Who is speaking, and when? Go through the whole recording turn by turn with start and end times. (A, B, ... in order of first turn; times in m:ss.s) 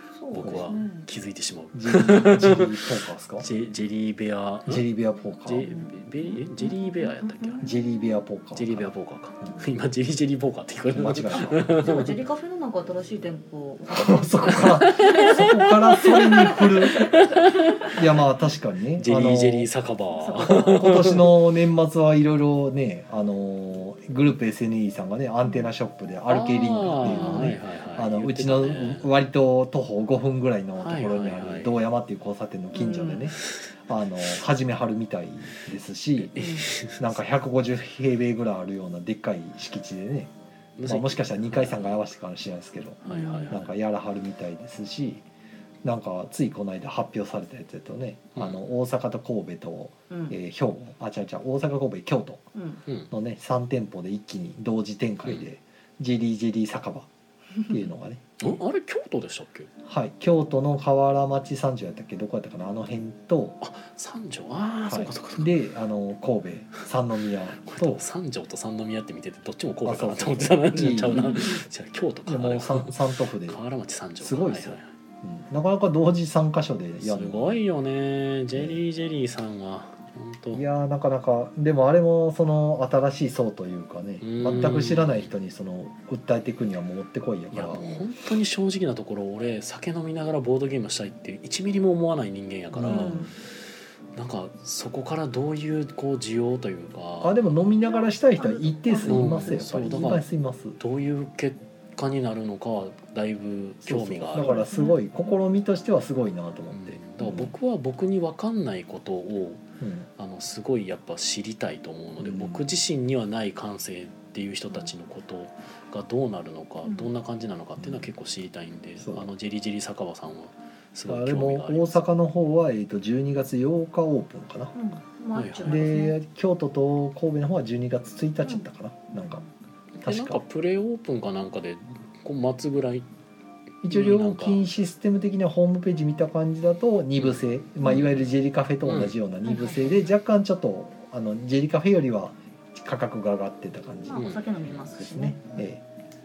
0:00.1-0:01.1 A
0:00.3-0:04.8 B
0:00.4-0:00.7 C
0:01.7-0:03.5 C
0:04.7-0:05.6 C
0:05.4-0:07.6 B
0:05.6-0:07.9 A
0:07.6-0:09.5 C
0:08.6-0:12.2 B
0:10.9-0:11.9 C
0:11.3-0:18.3 A
0:13.9-0:17.2 C
0:14.8-0:18.0 B
0:17.9-0:19.7 C
0:19.0-0:21.4 B
0:20.2-0:21.1 A
0:20.5-0:40.3 C
0:26.3-0:29.1 B
0:27.0-0:27.5 A
0:30.8-0:31.8 B
0:32.7-0:33.3 A
0:36.2-0:37.2 B
0:36.4-0:36.7 A
0:40.8-0:42.0 B
0:40.8-0:45.2 C
0:43.0-0:43.7 B
0:43.1-0:43.6 A
0:45.8-0:52.4 C
0:48.4-0:48.6 B
0:50.1-0:50.4 A
0:52.6-0:52.8 A
0:52.9-0:53.1 B
0:53.1-0:57.1 C
0:57.7-0:58.6 C
0:58.4-0:59.7 B
0:59.8-1:03.6 C
1:03.6-1:05.6 B
1:04.9-1:08.0 C
1:07.6-1:14.9 B
1:09.8-1:11.6 C
1:12.3-1:13.6 C
1:14.2-1:17.6 C
1:17.0-1:20.6 B
1:20.5-1:27.8 C
1:24.2-1:25.3 B
1:27.5-1:33.4 B
1:32.7-1:33.3 C
1:32.9-1:33.3 A
1:34.2-1:37.5 B
1:37.2-1:40.8 C
1:37.8-1:40.2 A
1:39.1-1:40.2 B
1:40.8-1:44.6 B
1:43.8-1:47.5 C
1:44.3-1:45.0 A
1:46.7-1:49.6 B
1:49.8-1:50.1 C
1:50.2-2:02.2 B
1:52.2-1:52.6 C
1:56.8-1:57.1 A
1:57.8-1:58.1 C
1:59.0-1:59.3 C
2:01.1-2:04.7 C
2:04.7-2:06.2 A
2:05.3-2:06.0 B
2:05.6-2:09.4 C
2:10.0-2:13.1 B
2:10.0-2:10.4 C
2:13.8-2:24.3 C
2:13.9-2:14.6 B
2:17.9-2:18.2 B
2:18.8-2:19.2 B
2:19.4-2:20.1 A
2:24.1-2:25.7 A
2:24.1-2:24.8 B
2:24.9-2:25.8 C